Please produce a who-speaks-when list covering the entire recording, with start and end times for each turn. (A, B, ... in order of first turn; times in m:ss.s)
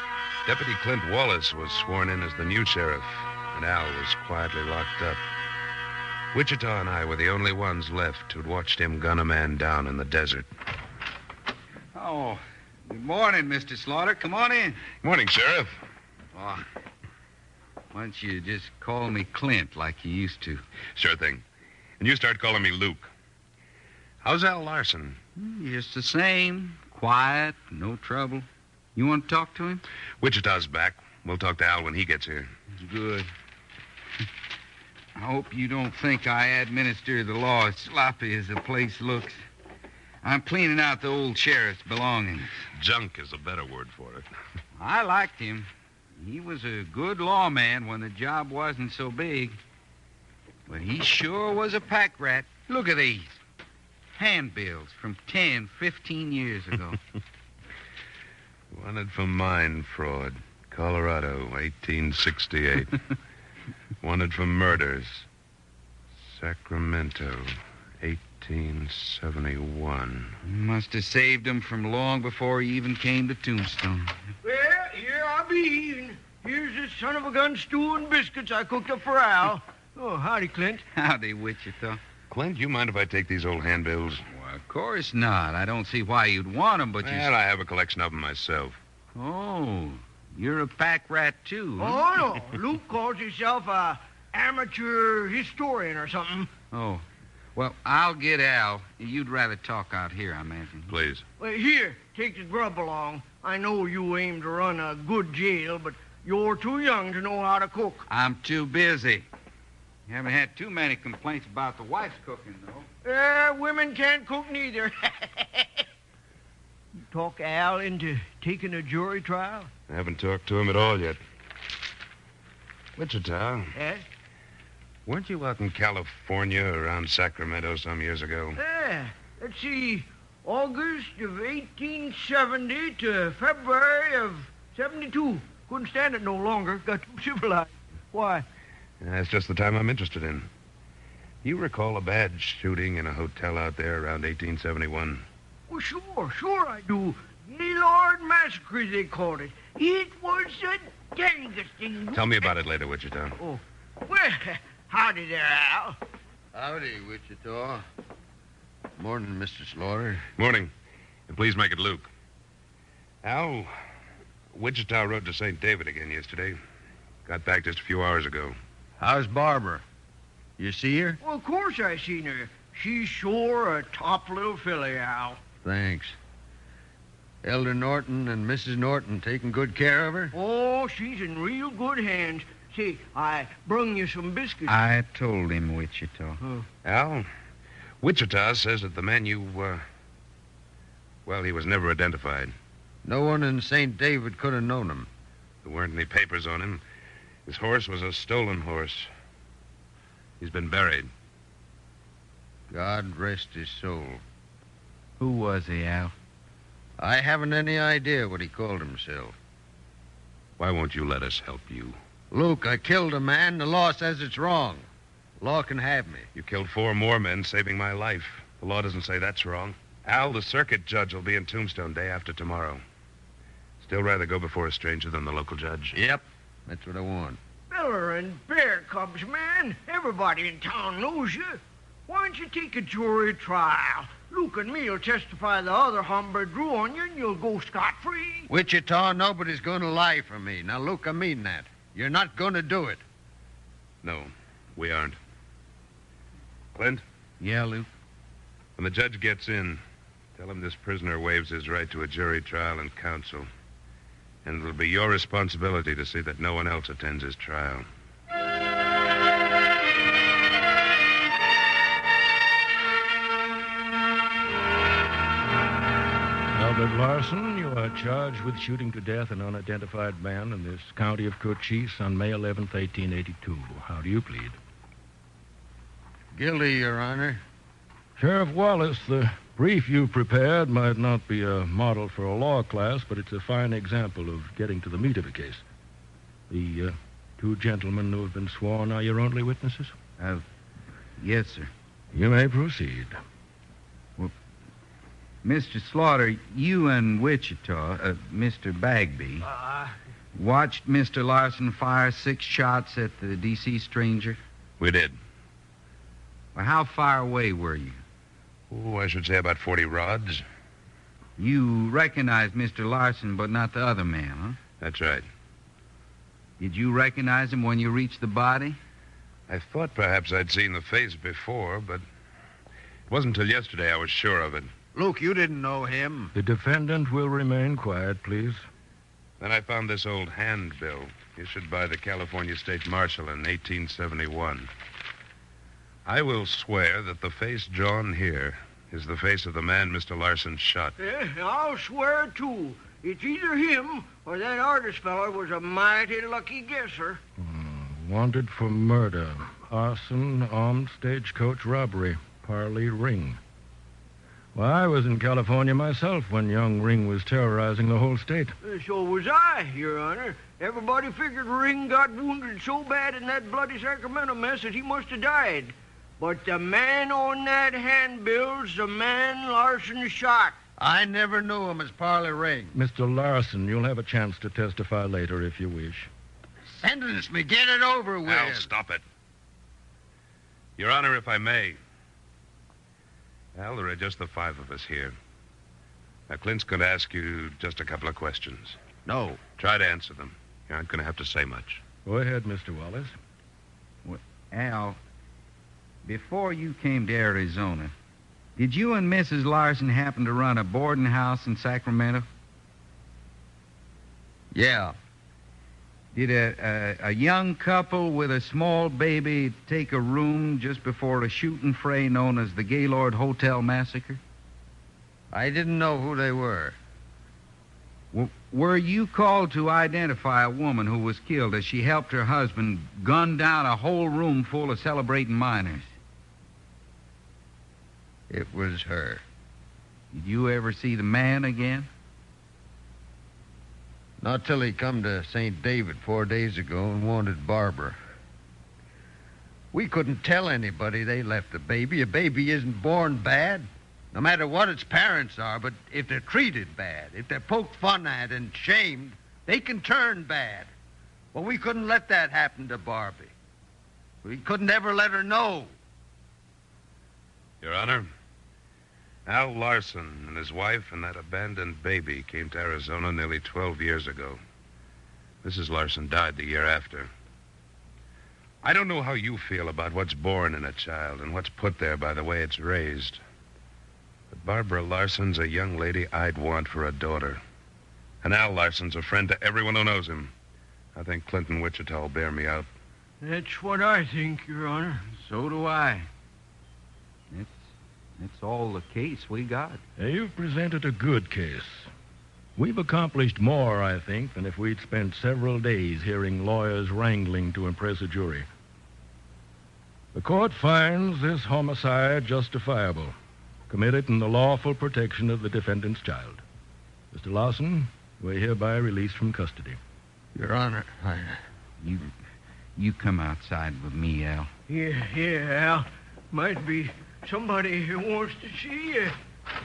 0:00.4-0:05.2 A
0:06.3-0:10.4 A
0:11.9-0:14.8 B
0:15.0-0:15.8 A
0:16.3-0:16.6 B
0:17.9-0:20.6 B
0:20.9-0:21.4 A
0:22.0-0:23.1 A
0:24.2-0:25.2 A
0:25.4-0:29.8 B
0:30.2-0:32.5 A
0:32.8-0:33.3 B
0:35.1-0:39.4 B
0:40.2-0:42.5 B
0:42.8-0:44.2 A
0:44.8-0:49.6 B
0:50.7-0:53.3 B
0:54.2-0:57.0 B
0:58.7-1:03.0 A
1:04.0-1:05.2 A
1:06.2-1:10.4 A
1:10.4-1:14.1 B
1:14.4-1:20.8 C
1:20.9-1:22.0 B
1:22.3-1:24.2 A
1:24.3-1:27.3 B
1:27.0-1:28.8 A
1:29.1-1:32.0 B
1:31.8-1:36.5 C
1:36.7-1:37.0 B
1:37.5-1:41.0 B
1:40.9-1:41.2 A
1:41.4-1:48.0 C
1:48.1-1:49.3 B
1:50.1-1:52.9 B
1:53.0-1:55.8 C
1:57.1-1:59.7 C
1:59.9-2:01.2 A
2:03.0-2:03.7 A
2:03.7-2:04.0 C
2:05.0-2:08.6 A
2:08.6-2:18.4 C
2:19.0-2:20.5 A
2:21.4-2:25.2 A
2:25.7-2:32.5 C
2:32.1-2:33.4 A
2:33.4-2:36.0 C
2:36.5-2:37.8 D
2:39.0-2:40.2 D
2:40.4-2:40.7 A
2:41.3-2:42.1 A
2:43.2-2:43.7 A
2:44.5-2:46.6 A
2:47.2-2:48.6 A
2:49.0-2:49.8 D
2:50.6-2:51.2 D
2:51.2-2:55.4 C
2:55.6-2:56.2 D
2:57.4-3:00.3 D
3:00.3-3:04.8 C
3:04.7-3:06.4 B
3:06.8-3:07.3 A
3:08.0-3:09.8 A
3:11.2-3:12.5 A
3:13.0-3:15.1 D
3:15.6-3:16.8 A
3:17.4-3:19.1 A
3:20.4-3:21.1 A
3:22.7-3:24.2 D
3:25.2-3:26.1 B
3:27.0-3:29.4 D
3:30.6-3:32.0 A
3:32.3-3:34.8 D
3:35.4-3:36.3 D
3:36.3-3:42.8 A
3:43.8-3:46.0 A
3:45.9-3:47.4 D
3:47.7-3:58.5 C
3:58.5-4:03.0 D
4:04.0-4:05.2 A
4:06.7-4:07.0 A
4:07.4-4:07.9 B
4:08.8-4:09.8 A
4:10.4-4:13.5 A
4:14.4-4:17.8 A
4:26.5-4:34.6 E
4:36.3-4:37.4 D
4:38.2-4:45.6 E
4:46.5-4:50.0 E
4:50.2-4:50.4 B
4:51.2-4:51.7 B
4:52.1-4:53.2 E
4:55.4-4:59.5 B
5:00.3-5:04.4 B
5:04.8-5:05.2 A
5:06.5-5:08.0 B
5:08.7-5:10.4 A
5:11.4-5:14.6 B
5:14.8-5:15.2 A
5:16.6-5:18.8 B
5:19.5-5:22.0 A
5:23.1-5:24.7 A
5:24.9-5:26.3 D
5:26.3-5:28.6 E
5:29.4-5:34.7 A
5:36.0-5:41.0 A
5:41.0-5:47.2 C
5:47.4-5:53.4 E
5:54.5-5:58.6 E
5:58.6-6:10.6 C
6:10.8-6:12.8 D
6:12.7-6:16.1 E
6:16.8-6:18.7 D
6:18.2-6:19.0 A
6:20.8-6:21.8 A
6:23.5-6:25.1 A
6:26.3-6:28.8 A
6:29.0-6:29.4 D
6:29.6-6:31.8 A
6:32.0-6:33.2 E
6:34.0-6:35.0 B
6:36.0-6:37.9 B
6:38.6-6:42.3 B
6:44.5-6:44.9 D
6:46.1-6:54.2 B
6:55.3-6:56.8 D
6:58.1-7:05.9 B
7:08.3-7:09.2 D
7:10.1-7:11.9 B
7:14.2-7:18.0 D
7:19.7-7:30.7 D
7:31.3-7:33.3 D
7:34.2-7:35.7 D
7:37.6-7:38.1 A
7:39.2-7:44.4 A
7:45.4-7:47.1 A
7:48.6-7:53.2 A
7:54.3-7:57.4 A
7:58.2-8:00.3 A
8:00.9-8:02.7 A
8:03.2-8:05.0 C
8:05.1-8:06.1 B
8:07.3-8:09.8 B
8:10.0-8:11.9 E
8:12.6-8:18.5 E
8:20.1-8:23.1 E
8:23.7-8:26.4 E
8:27.1-8:29.8 E
8:30.3-8:31.4 D
8:31.8-8:32.1 B
8:32.8-8:34.5 B
8:34.7-8:39.2 C